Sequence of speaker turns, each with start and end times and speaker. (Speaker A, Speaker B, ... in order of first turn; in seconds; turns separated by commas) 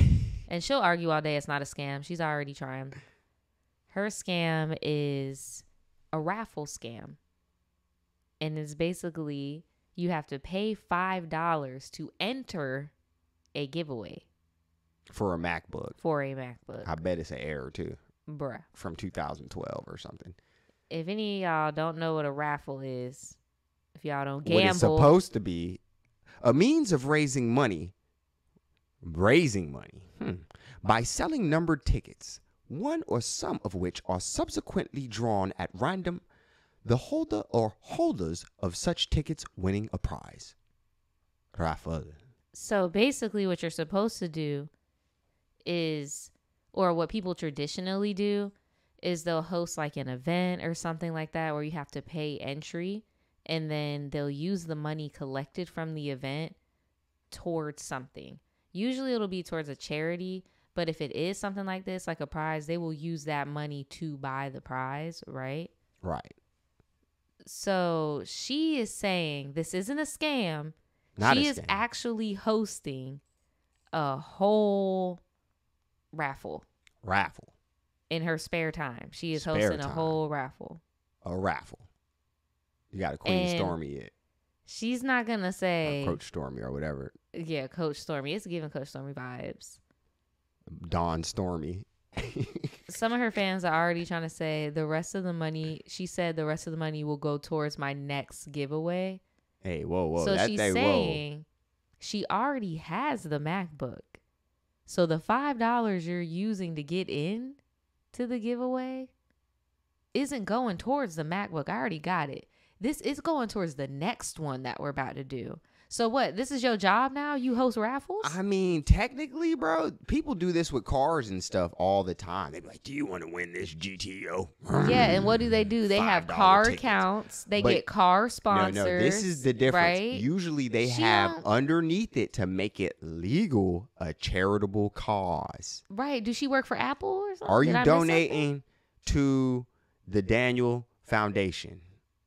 Speaker A: 0.5-3.0, Speaker A: 3.9-7.2, Speaker A: 8.4-12.9, Speaker A: 13.6-14.2, Speaker B: 15.1-16.0, Speaker A: 16.0-17.1, Speaker B: 16.8-18.0, Speaker A: 18.3-18.7, Speaker B: 18.8-20.4, Speaker A: 20.9-23.4, Speaker A: 23.9-25.1, Speaker B: 24.4-25.8, Speaker B: 26.4-27.9, Speaker B: 29.0-36.2, Speaker B: 36.9-40.5, Speaker B: 41.6-42.2, Speaker A: 42.5-44.7, Speaker A: 45.6-56.6, Speaker A: 57.3-65.7, Speaker B: 66.0-66.3, Speaker A: 67.5-73.2, Speaker B: 71.2-71.8, Speaker A: 73.9-75.2, Speaker A: 76.1-76.7, Speaker B: 77.0-77.5, Speaker A: 78.1-80.8, Speaker B: 79.3-80.2, Speaker B: 81.2-81.9, Speaker B: 82.9-84.1, Speaker A: 83.2-83.8, Speaker A: 84.7-86.2, Speaker B: 85.8-87.1, Speaker A: 87.3-89.8, Speaker B: 90.7-92.7, Speaker A: 92.9-99.2, Speaker B: 99.6-101.2, Speaker A: 100.2-101.5, Speaker A: 102.0-104.2, Speaker A: 104.9-107.6, Speaker A: 108.1-109.1, Speaker A: 110.1-118.4, Speaker B: 118.2-127.8, Speaker A: 124.7-130.3, Speaker B: 128.5-135.8, Speaker A: 130.8-131.4, Speaker A: 135.9-138.5, Speaker B: 137.4-141.8